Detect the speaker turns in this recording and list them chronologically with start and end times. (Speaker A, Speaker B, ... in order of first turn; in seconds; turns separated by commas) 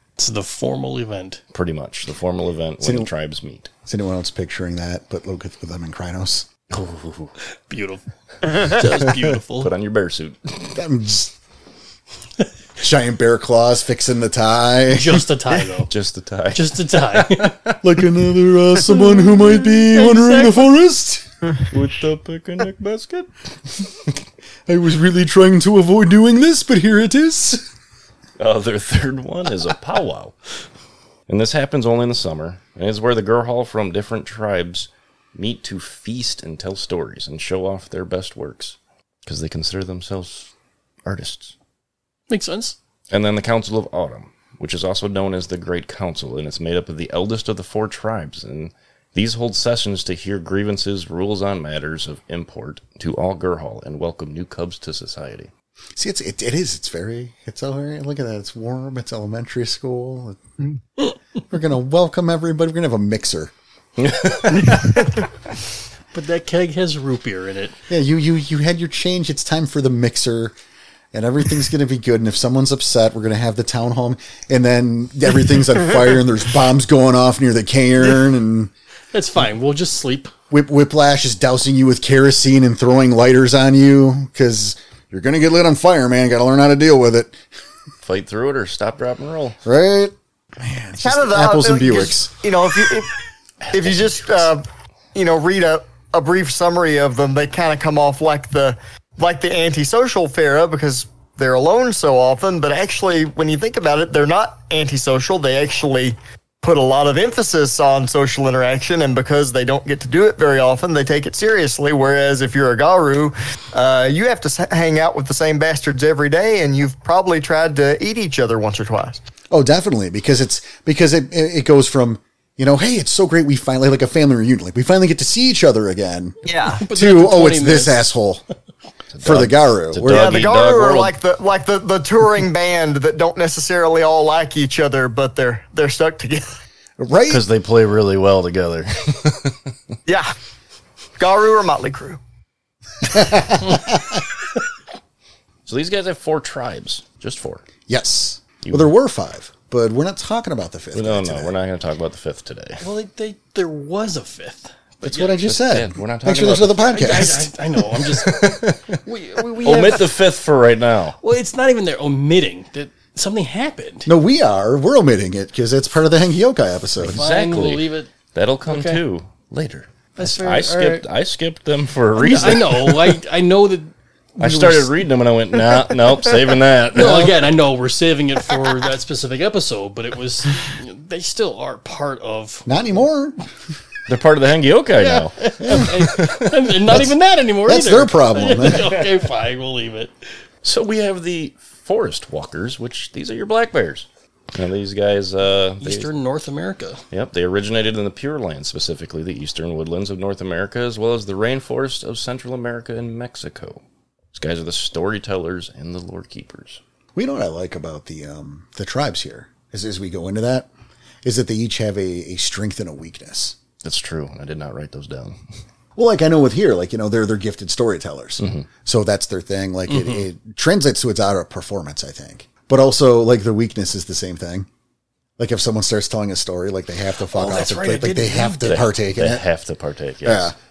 Speaker A: 0.2-1.4, Speaker B: 1.5-3.7, Speaker C: 2.8-3.1, Speaker C: 3.9-6.5, Speaker B: 6.7-7.3, Speaker A: 7.7-9.7, Speaker B: 8.8-10.8, Speaker C: 10.7-11.3, Speaker C: 12.8-15.3, Speaker A: 14.9-15.9, Speaker B: 15.9-18.1, Speaker A: 16.5-17.6, Speaker C: 17.8-21.2, Speaker A: 18.8-20.7, Speaker B: 21.7-23.3, Speaker C: 24.7-27.6, Speaker B: 28.4-30.3, Speaker B: 31.3-40.5, Speaker B: 41.0-41.5, Speaker A: 42.3-42.8, Speaker B: 43.1-55.5, Speaker C: 56.0-60.4, Speaker C: 61.5-63.5, Speaker B: 64.0-65.0, Speaker A: 66.1-67.8, Speaker C: 67.9-70.5, Speaker C: 71.1-78.7, Speaker A: 79.1-80.3, Speaker C: 80.5-87.4, Speaker B: 88.0-89.6, Speaker C: 89.6-92.3, Speaker D: 91.0-93.1, Speaker B: 93.6-94.5, Speaker D: 93.7-94.6, Speaker D: 95.1-119.2, Speaker C: 119.5-128.4, Speaker D: 126.4-126.8, Speaker A: 126.7-128.1, Speaker B: 129.1-131.1, Speaker C: 129.2-130.3, Speaker D: 130.1-136.6, Speaker C: 137.0-137.4, Speaker B: 137.3-139.6, Speaker D: 140.1-140.3, Speaker D: 141.2-142.2, Speaker C: 143.1-144.2, Speaker B: 145.7-147.6, Speaker C: 147.9-151.5, Speaker B: 148.6-148.9, Speaker B: 150.9-152.8, Speaker A: 152.8-155.3, Speaker C: 155.0-157.5, Speaker B: 155.2-161.2, Speaker A: 156.9-160.1, Speaker A: 161.2-164.1, Speaker C: 164.1-167.2, Speaker B: 167.0-173.2, Speaker A: 167.1-168.1, Speaker A: 168.7-169.0, Speaker A: 170.2-171.0, Speaker A: 172.2-174.9, Speaker B: 174.4-177.5, Speaker A: 176.9-182.8, Speaker C: 182.7-183.4, Speaker B: 184.1-187.0, Speaker A: 185.0-190.1, Speaker C: 185.6-186.0, Speaker C: 187.6-188.9, Speaker B: 188.7-189.2, Speaker B: 190.6-196.1, Speaker A: 195.8-197.0, Speaker B: 197.1-203.8, Speaker B: 204.3-206.8, Speaker C: 207.2-210.7, Speaker C: 211.2-213.6, Speaker B: 213.8-215.4, Speaker C: 215.9-224.7, Speaker B: 218.4-218.7, Speaker A: 219.9-220.2, Speaker C: 225.4-229.4, Speaker A: 227.3-228.8, Speaker B: 228.6-230.5, Speaker C: 230.2-230.5